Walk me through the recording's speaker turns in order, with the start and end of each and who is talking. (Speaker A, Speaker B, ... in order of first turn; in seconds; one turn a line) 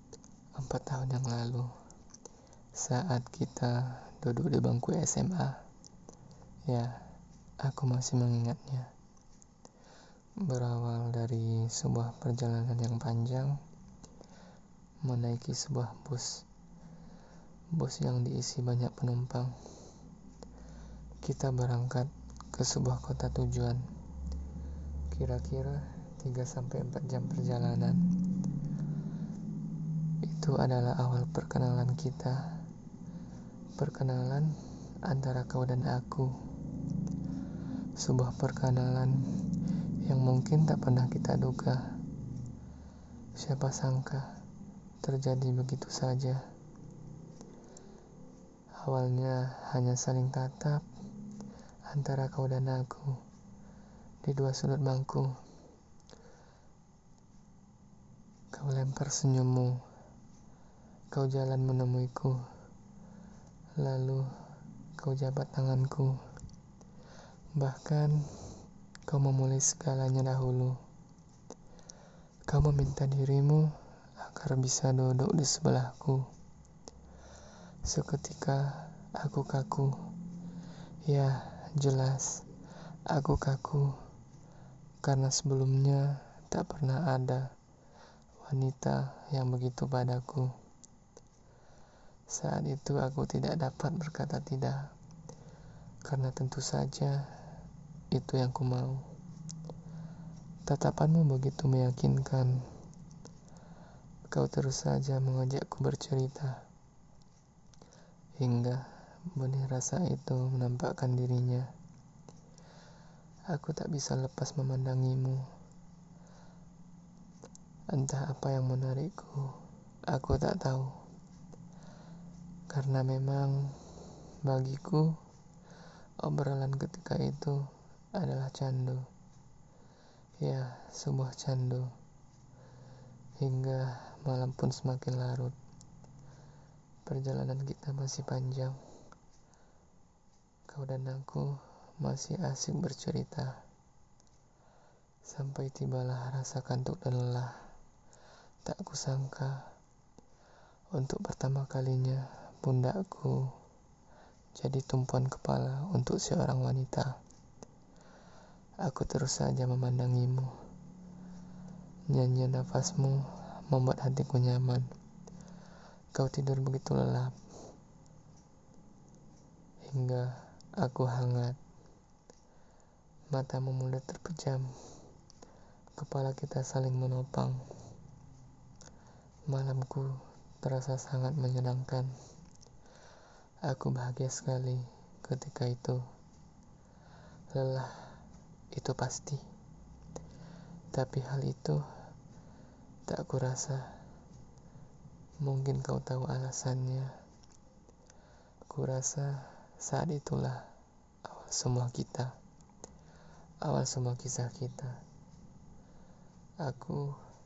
Speaker A: 0.6-1.7
Speaker A: 2.7-5.6
Speaker A: 6.7-7.0
Speaker A: 7.6-8.9
Speaker A: 10.4-13.6
Speaker A: 15.0-16.4
Speaker A: 17.7-19.6
Speaker A: 21.2-23.9
Speaker A: 25.1-28.0
Speaker A: 30.2-32.5
Speaker A: 33.8-34.5
Speaker A: 35.0-36.3
Speaker A: 38.0-39.2
Speaker A: 40.0-41.9
Speaker A: 43.4-44.3
Speaker A: 45.0-46.5
Speaker A: 48.8-50.9
Speaker A: 51.9-53.2
Speaker A: 54.2-55.4
Speaker A: 58.5-59.8
Speaker A: 61.1-62.4
Speaker A: 63.8-64.3
Speaker A: 65.0-66.2
Speaker A: 67.5-68.2
Speaker A: 69.0-70.8
Speaker A: 72.5-76.3
Speaker A: 77.8-80.0
Speaker A: 81.0-82.4
Speaker A: 83.1-84.0
Speaker A: 85.0-87.5
Speaker A: 88.4-90.5
Speaker A: 92.3-94.9
Speaker A: 96.0-97.3
Speaker A: 98.1-99.0
Speaker A: 100.6-102.6
Speaker A: 104.3-106.6
Speaker A: 108.4-111.7
Speaker A: 113.5-115.5
Speaker A: 117.9-121.0
Speaker A: 122.7-125.2
Speaker A: 126.2-129.1
Speaker A: 130.4-131.9
Speaker A: 133.4-135.5
Speaker A: 137.0-138.8
Speaker A: 140.7-143.6
Speaker A: 145.2-147.7
Speaker A: 148.6-149.7
Speaker A: 150.9-153.5
Speaker A: 154.5-157.2
Speaker A: 158.8-160.5
Speaker A: 162.1-164.9
Speaker A: 166.1-167.3
Speaker A: 169.8-171.6
Speaker A: 173.3-174.7
Speaker A: 175.9-177.6
Speaker A: 179.5-182.1
Speaker A: 183.6-186.0
Speaker A: 187.5-188.2
Speaker A: 188.7-189.4
Speaker A: 190.9-191.8
Speaker A: 193.1-194.0
Speaker A: 195.4-197.2
Speaker A: 198.7-200.7
Speaker A: 201.2-202.3
Speaker A: 203.6-205.0
Speaker A: 206.6-207.2